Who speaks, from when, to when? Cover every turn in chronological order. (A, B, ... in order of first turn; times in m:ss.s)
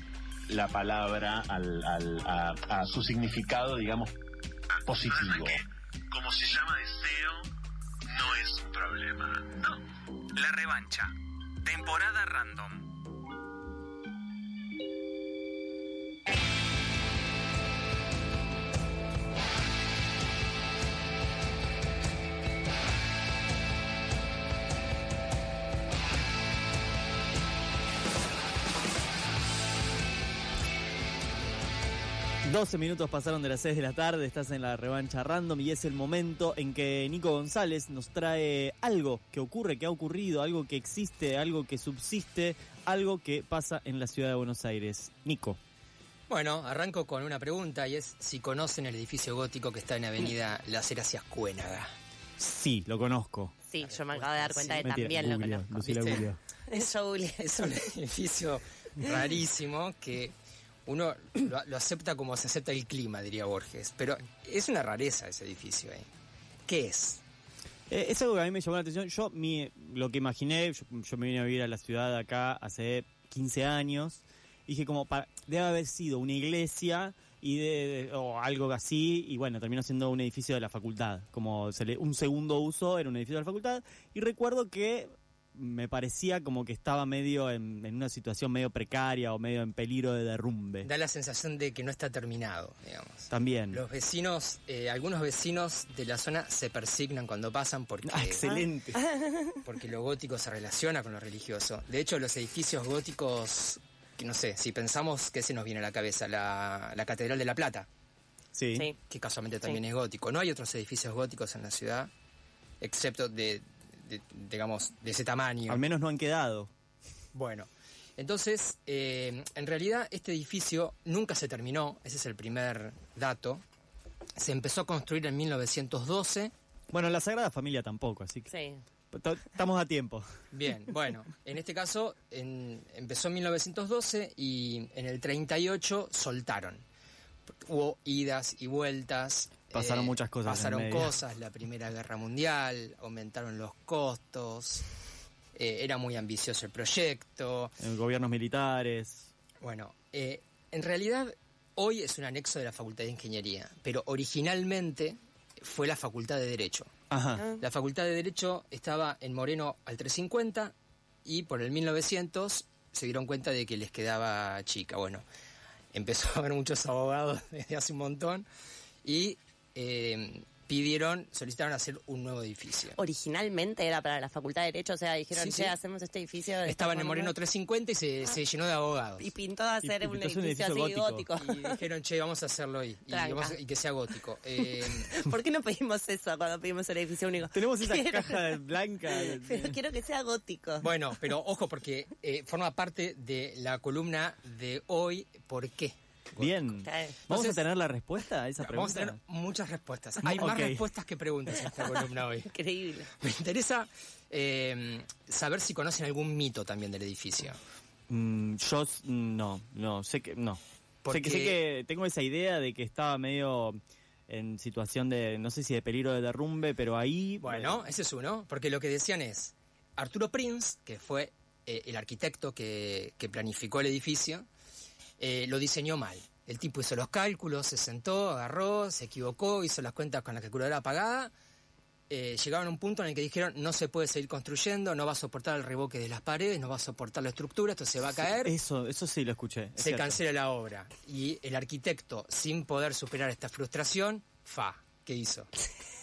0:00.5-0:04.2 A
0:04.8-0:07.5 A
0:04.9-0:05.6 B
0:08.1-0:09.8 A
0:10.4-0:11.1 B
0:11.6-0:12.9 B
0:32.4-0:45.6 C
0:46.3-0:51.9 D
0:52.4-0:53.5 C
0:53.6-0:57.8 E
0:53.8-0:54.8 D
0:54.8-0:56.4 C
0:55.8-0:56.2 D
0:57.5-1:00.3 D
1:00.8-1:06.0 D
1:06.7-1:07.2 D
1:07.9-1:30.9 C
1:30.8-1:38.4 D
1:33.3-1:33.8 C
1:38.0-1:39.0 C
1:38.4-1:39.5 E
1:39.6-1:47.9 D
1:48.5-1:48.9 C
1:49.1-1:52.1 D
1:52.8-1:55.8 D
1:55.7-1:56.7 C
1:57.3-2:03.6 D
2:04.4-2:06.5 D
2:06.9-2:08.5 C
2:08.5-2:08.8 E
2:09.1-2:10.2 C
2:10.5-2:16.8 D
2:17.6-2:24.8 D
2:19.7-2:21.1 C
2:25.6-2:27.7 D
2:27.8-2:29.3 C
2:29.6-2:36.9 D
2:37.1-2:37.4 C
2:37.4-2:37.6 E
2:37.6-2:40.7 D
2:41.2-2:45.2 D
2:45.9-2:48.4 D
2:49.0-2:53.0 D
2:53.0-2:57.3 E
2:55.3-2:55.8 D
2:56.6-2:59.3 D
2:59.2-3:01.8 E
2:59.8-3:01.3 C
3:01.4-3:05.1 D
3:03.1-3:03.6 E
3:04.6-3:10.9 E
3:07.5-3:09.8 C
3:10.8-3:17.6 D
3:16.4-3:19.2 C
3:16.8-3:17.2 E
3:18.6-3:22.5 D
3:20.2-3:20.8 C
3:22.4-3:23.1 E
3:23.1-3:27.6 D
3:28.1-3:37.8 C
3:31.0-3:31.6 D
3:37.4-3:44.5 D
3:45.2-3:51.3 D
3:52.1-3:58.5 D
3:58.2-4:00.2 C
3:59.8-4:05.5 D